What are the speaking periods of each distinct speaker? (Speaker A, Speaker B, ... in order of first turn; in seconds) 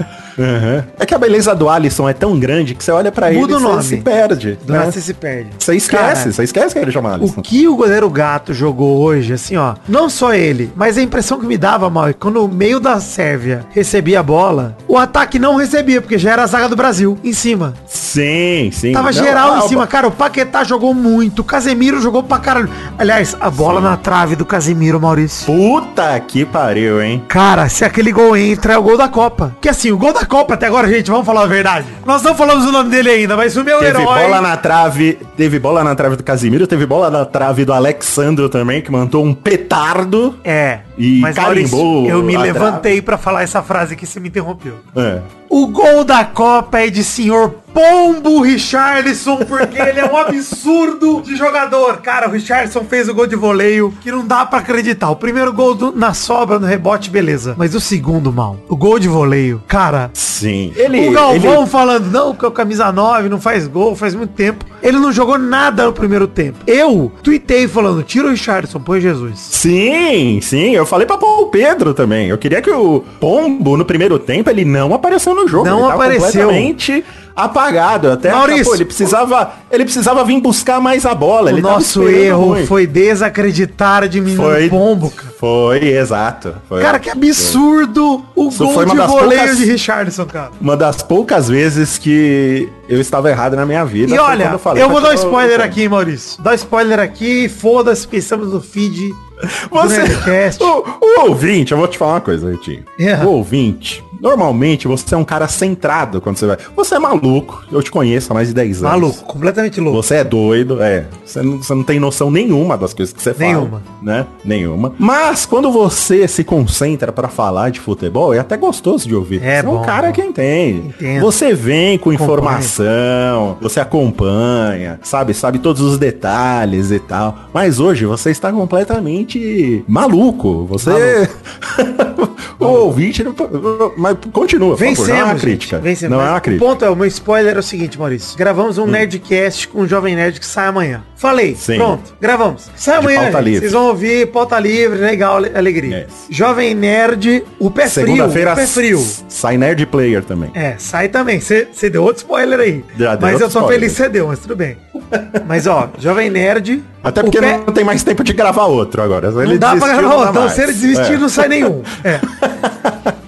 Speaker A: 0.4-5.0, 5.6-7.4, 17.9-19.9, 23.6-24.0, 25.5-27.3, 33.8-40.4, 41.0-42.9, 44.9-45.3, 49.6-50.1, 60.1-61.6, 69.5-82.7, 84.3-87.6, 88.5-89.7, 90.6-95.8, 99.5-109.2, 109.9-136.7, 141.6-142.0, 143.0-143.8, 145.9-146.2, 147.8-150.5, 152.9-154.0, 155.1-155.7, 157.0-163.2
Speaker B: 3.3-4.1, 4.6-6.3, 7.2-17.8, 18.9-25.5, 27.3-34.5, 40.4-44.8, 45.5-60.1, 60.8-69.5, 75.5-76.7, 78.2-79.1, 81.5-85.3, 86.8-90.6, 94.1-99.2, 99.7-100.8, 103.0-103.3, 108.8-110.1, 113.4-113.9, 119.4-120.2, 120.8-121.4, 122.1-122.7, 130.8-131.2, 132.6-132.9, 134.8-149.2, 150.5-154.8, 155.4-157.7, 159.4-162.4